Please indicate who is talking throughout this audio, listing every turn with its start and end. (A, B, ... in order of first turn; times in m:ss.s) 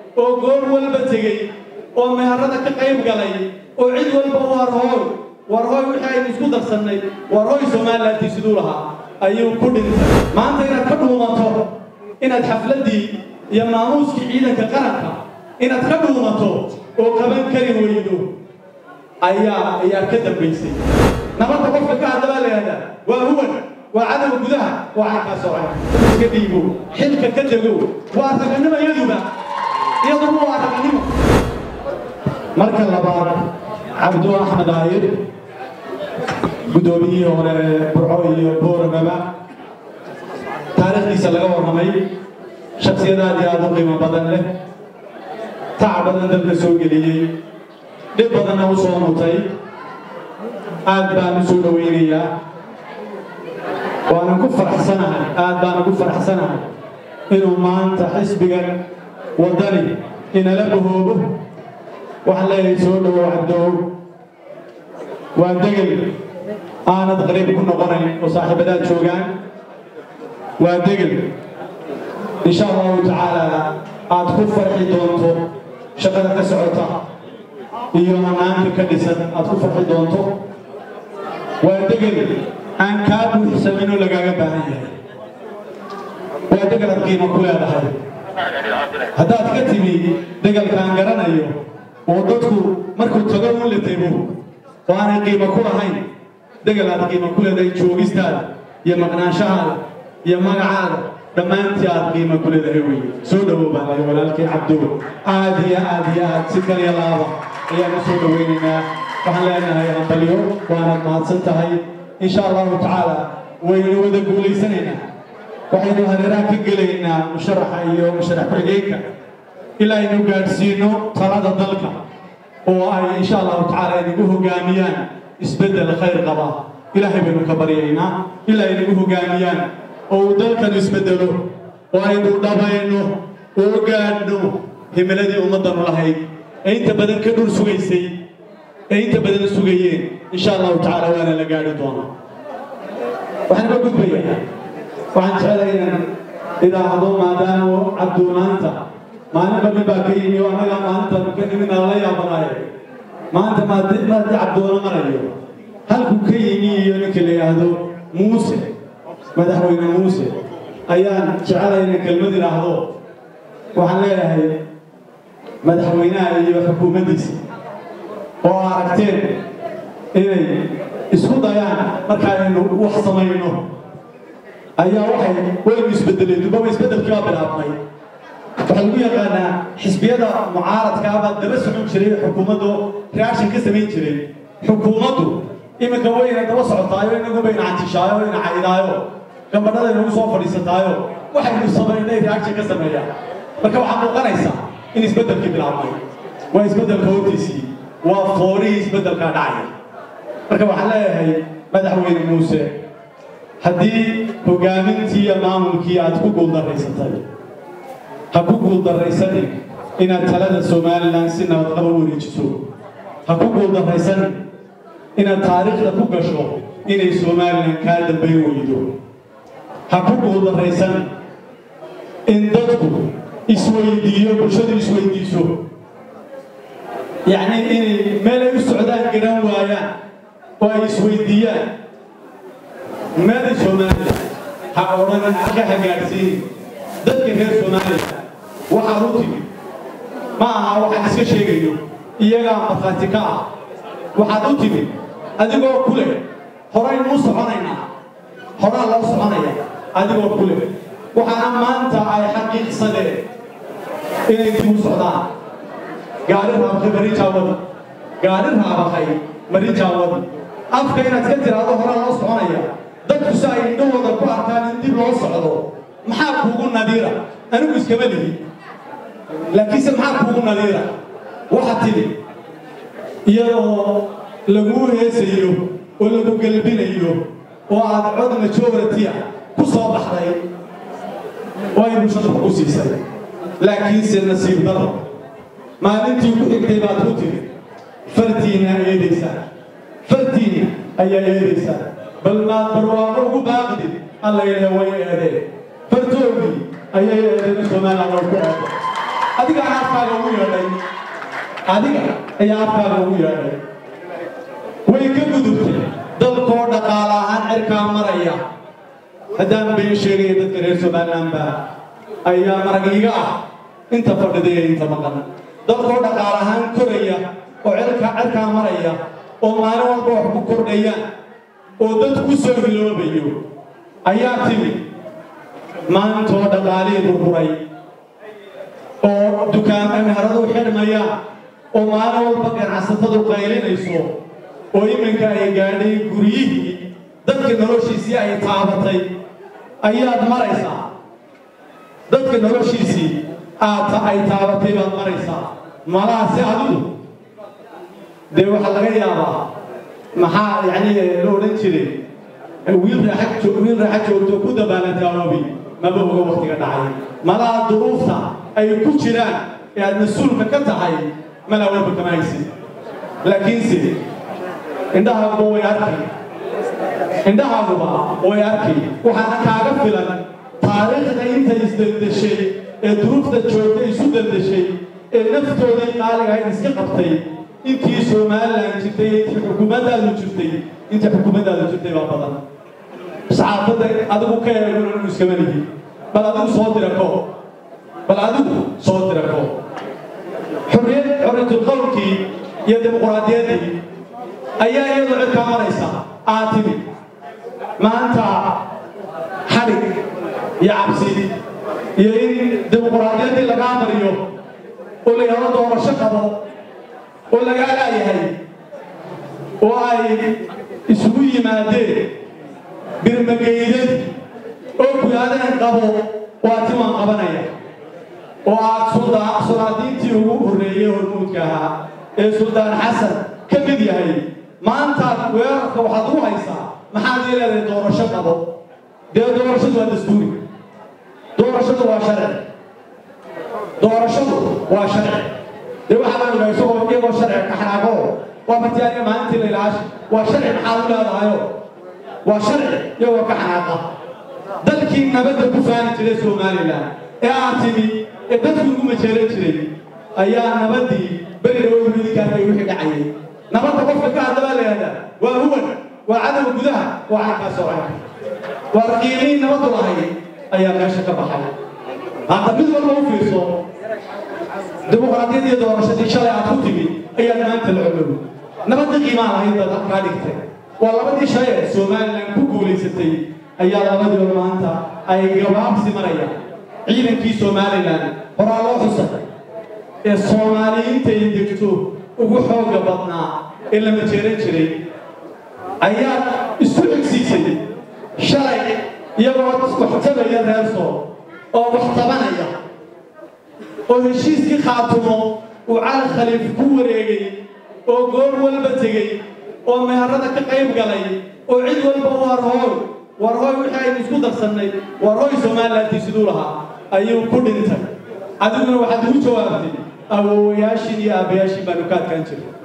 0:00.2-0:18.3 A
0:19.2-0:20.8 A
0:21.4-0:29.3 A
0:30.0-0:31.2 A
0:32.6-0:33.4 A
0:34.0-0:35.2 A
0:36.7-0:39.2 A
0:40.7-0:42.1 A
0:42.8-0:44.5 A
0:45.8-0:47.3 A
0:48.1-0:49.5 A
0:50.8-0:52.3 A
0:54.1-0:56.7 A
0:57.3-0:58.8 A
0:59.4-1:01.4 A
1:02.2-1:03.9 A
1:05.4-1:06.1 A
1:06.8-1:09.3 A
1:10.6-1:11.3 A
1:12.4-1:17.0 A
1:17.9-1:20.4 A
1:21.6-1:24.9 A
1:26.5-1:27.9 A
1:29.1-1:34.4 A
1:34.9-1:36.0 A
1:36.6-1:55.0 A
1:55.7-1:59.1 A
1:59.8-2:02.0 A
2:02.6-2:18.2 A
2:18.9-2:22.1 A
2:23.5-2:24.4 A
2:25.1-2:28.8 A
2:29.3-2:32.7 A
2:33.3-2:35.3 A
2:35.9-2:38.7 A
2:39.3-2:40.4 A
2:40.9-2:42.9 A
2:43.7-2:44.6 A
2:45.6-2:47.4 A
2:48.4-2:49.4 A
2:50.1-2:53.7 A
2:54.8-2:57.8 A
2:58.6-3:16.0 A
3:16.5-3:19.7 A
3:20.5-3:22.8 A
3:23.6-3:27.2 A
3:28.3-3:32.6 A
3:33.2-3:34.4 A
3:35.2-3:38.9 A
3:39.9-3:41.1 A
3:42.3-3:45.6 A
3:47.2-3:49.9 A
3:50.6-3:51.7 A
3:53.2-3:56.5 A
3:57.0-3:59.4 A
4:00.4-4:03.5 A
4:04.1-4:07.8 A
4:08.6-4:13.2 A
4:14.3-4:15.3 A
4:16.3-4:17.6 A
4:18.2-4:28.4 A
4:29.5-4:30.9 A
4:31.5-4:32.2 A
4:33.2-4:40.4 A
4:41.7-4:43.0 A
4:43.6-4:45.0 A
4:45.8-4:47.5 A
4:48.0-4:49.4 A
4:50.0-4:58.7 A
4:59.4-5:00.8 A
5:01.7-5:03.6 A
5:04.8-5:08.4 A
5:09.4-5:11.6 A
5:12.2-5:21.0 A
5:21.8-5:23.4 A
5:24.0-5:24.8 A
5:25.9-5:27.6 A
5:29.0-5:31.1 A
5:31.7-5:34.1 A
5:34.7-5:39.1 A
5:39.8-5:40.9 A
5:42.1-5:46.9 A
5:48.3-5:49.5 A
5:50.1-5:52.0 A
5:52.6-6:02.5 A
6:03.2-6:04.0 A
6:04.9-6:06.1 A
6:07.2-6:22.4 A
6:23.3-6:27.3 A
6:28.1-6:29.6 A
6:30.7-6:33.8 A
6:34.6-6:36.8 A
6:37.8-6:38.6 A
6:39.4-6:40.0 A
6:40.6-6:41.3 A
6:42.0-6:44.2 A
6:45.0-6:46.4 A
6:47.3-6:48.4 A
6:49.6-6:52.2 A
6:53.0-6:54.1 A
6:54.8-6:57.5 A
6:58.4-7:08.5 A
7:09.1-7:10.4 A
7:11.4-7:12.4 A
7:13.8-7:15.3 A
7:15.9-7:21.5 A
7:22.2-7:23.8 A
7:24.6-7:38.0 A
7:38.7-7:41.5 A
7:42.3-7:43.6 A
7:44.9-7:59.2 A
8:00.0-8:04.8 A
8:05.8-8:07.6 A
8:08.2-8:12.6 A
8:13.9-8:32.5 A